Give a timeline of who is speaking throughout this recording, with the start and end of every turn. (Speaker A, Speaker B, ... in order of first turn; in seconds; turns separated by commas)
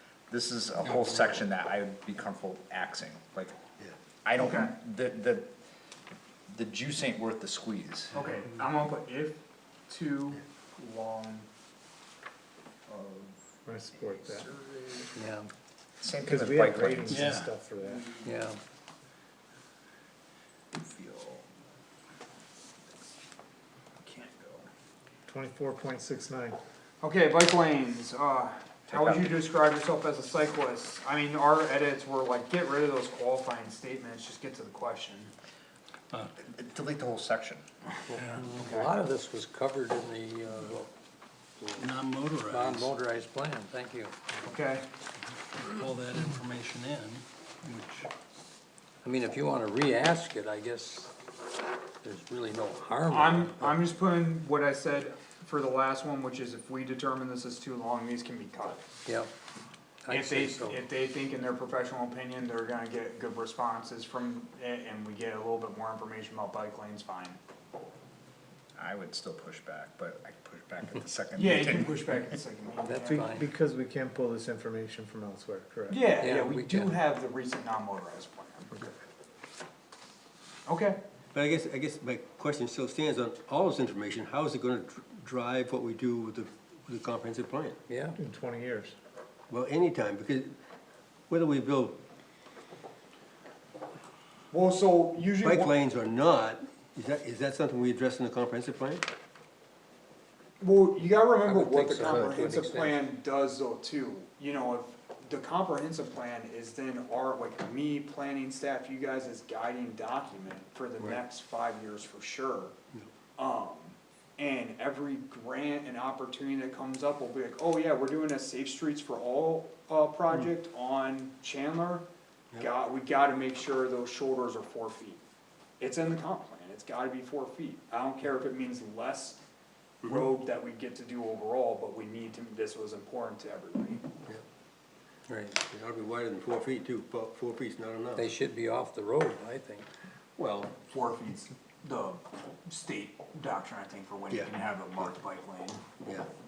Speaker A: 0.3-3.5, Speaker A: 4.2-5.5, Speaker B: 4.3-4.7, Speaker A: 6.5-8.2, Speaker B: 8.1-11.4, Speaker B: 12.9-13.4, Speaker C: 13.7-14.5, Speaker B: 14.5-15.0, Speaker D: 15.2-15.5, Speaker A: 16.0-17.4, Speaker C: 16.2-18.1, Speaker D: 18.2-18.6, Speaker A: 20.7-21.4, Speaker B: 24.0-24.7, Speaker C: 25.3-26.6, Speaker B: 27.0-35.3, Speaker A: 28.9-29.4, Speaker A: 36.4-37.6, Speaker D: 38.1-40.9, Speaker B: 38.4-38.9, Speaker D: 41.6-44.1, Speaker E: 41.8-42.9, Speaker B: 44.4-44.8, Speaker E: 45.5-48.1, Speaker D: 49.0-51.1, Speaker D: 52.0-53.8, Speaker B: 53.1-58.8, Speaker D: 60.0-60.8, Speaker B: 60.1-67.4, Speaker A: 68.8-72.2, Speaker B: 71.3-73.4, Speaker D: 72.9-73.4, Speaker C: 73.0-76.0, Speaker B: 75.9-78.8, Speaker D: 76.2-77.0, Speaker B: 80.7-81.0, Speaker E: 81.3-87.8, Speaker D: 87.9-88.2, Speaker C: 88.2-88.9, Speaker E: 89.5-90.5, Speaker E: 91.3-92.0, Speaker B: 94.5-95.7, Speaker E: 95.4-99.0, Speaker B: 100.6-112.7, Speaker D: 101.4-103.0, Speaker B: 113.4-122.0, Speaker B: 122.6-125.2, Speaker B: 125.8-129.4, Speaker B: 130.0-134.0, Speaker E: 130.0-130.3, Speaker D: 135.3-135.6, Speaker E: 135.6-138.3, Speaker D: 138.2-139.9, Speaker E: 140.4-140.7, Speaker B: 140.7-145.8